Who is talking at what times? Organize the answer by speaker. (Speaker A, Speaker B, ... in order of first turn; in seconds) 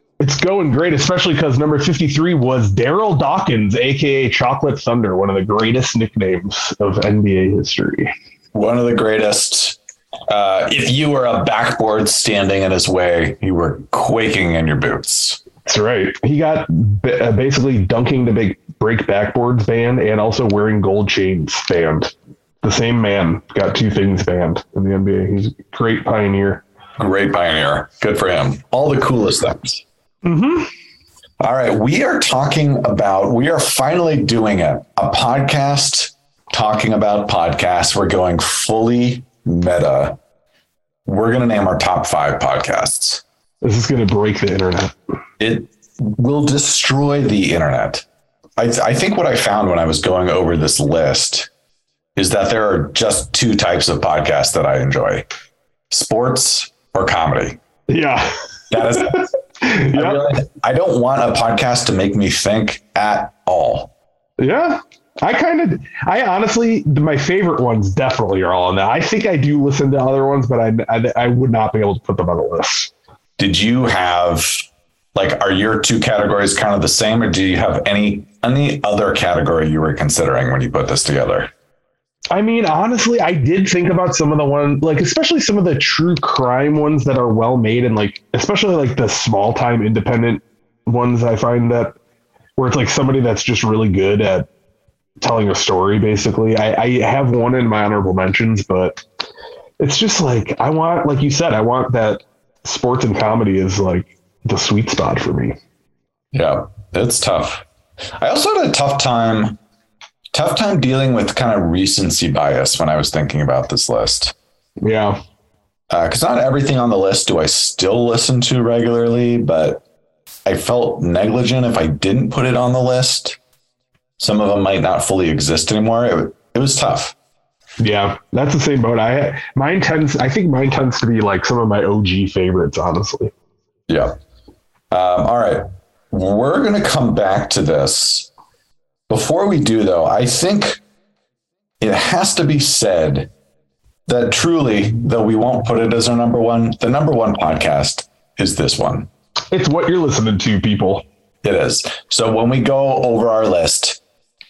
Speaker A: 0.2-8.1, 15.7-26.6, 30.2-30.7, 43.6-45.0, 57.9-60.2, 64.4-72.9, 82.3-92.0, 92.6-94.5, 95.2-99.0, 99.8-105.6, 114.8-115.2, 127.8-133.3, 149.5-151.0
Speaker B: 8.5-15.4, 27.0-29.8, 31.4-40.2, 41.1-43.2, 45.4-48.0, 48.6-51.5, 52.2-55.3, 55.9-57.6, 58.7-59.3, 59.9-63.9, 73.4-74.5, 75.2-81.5, 106.3-107.7, 108.2-109.6, 110.3-114.3, 115.9-119.8, 120.5-123.4, 124.2-127.2, 133.9-134.2, 134.9-138.3, 139.1-140.8, 141.8-143.3, 144.1-149.1, 151.4-154.0